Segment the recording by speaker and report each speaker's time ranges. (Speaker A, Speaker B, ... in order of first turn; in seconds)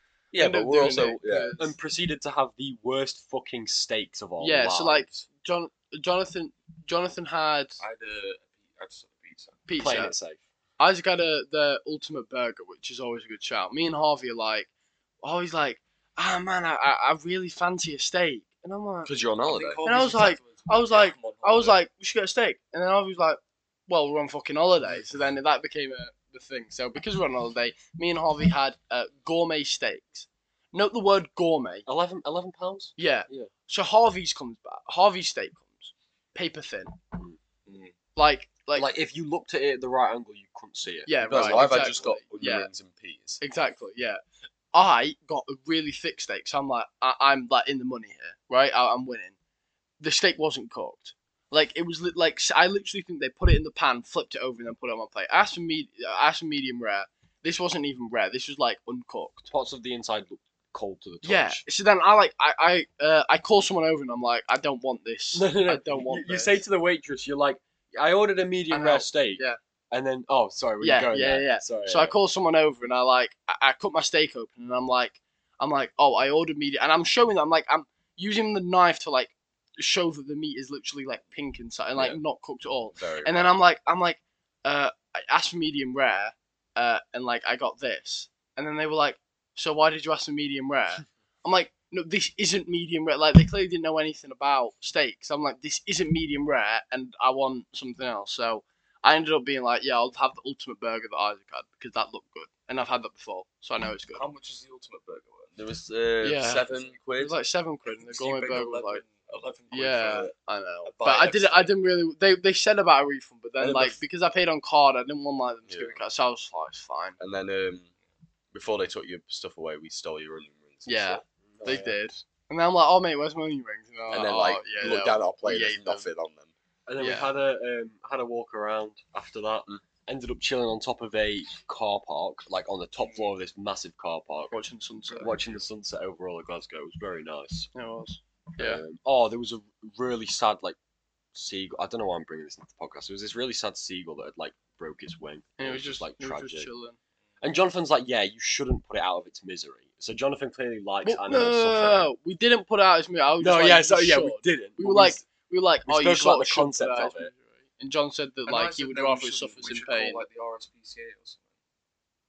Speaker A: 0.3-1.5, 19.1-19.8, 41.2-43.4, 82.9-83.5, 105.5-107.3, 113.6-114.0, 115.7-116.0, 117.2-117.9, 118.5-121.2, 124.1-126.5
Speaker B: 0.3-1.7, 4.4-7.8, 9.7-10.1, 10.8-14.7, 15.2-19.1, 19.8-31.9, 33.0-37.0, 38.1-38.9, 41.1-42.7, 43.4-44.2, 44.7-49.4, 50.0-59.5, 61.2-66.6, 68.7-69.6, 70.8-104.2, 106.2-109.0, 109.7-117.2, 120.8-126.1, 127.0-127.3, 134.5-135.4, 137.7-138.8, 145.6-146.9, 151.0-160.2
Speaker C: 1.6-5.2, 9.8-10.4, 31.9-33.5, 38.7-42.1, 59.5-61.6, 65.3-72.2, 121.5-122.0, 126.9-134.6, 135.2-137.7, 138.6-140.8, 141.3-146.7, 147.4-152.1, 153.4-155.2, 155.8-157.3
Speaker D: 7.8-9.6, 19.4-21.8, 37.6-37.9, 104.1-105.6, 106.7-106.9, 107.9-110.3, 110.8-111.7, 133.0-133.3, 135.3-135.6, 158.5-161.4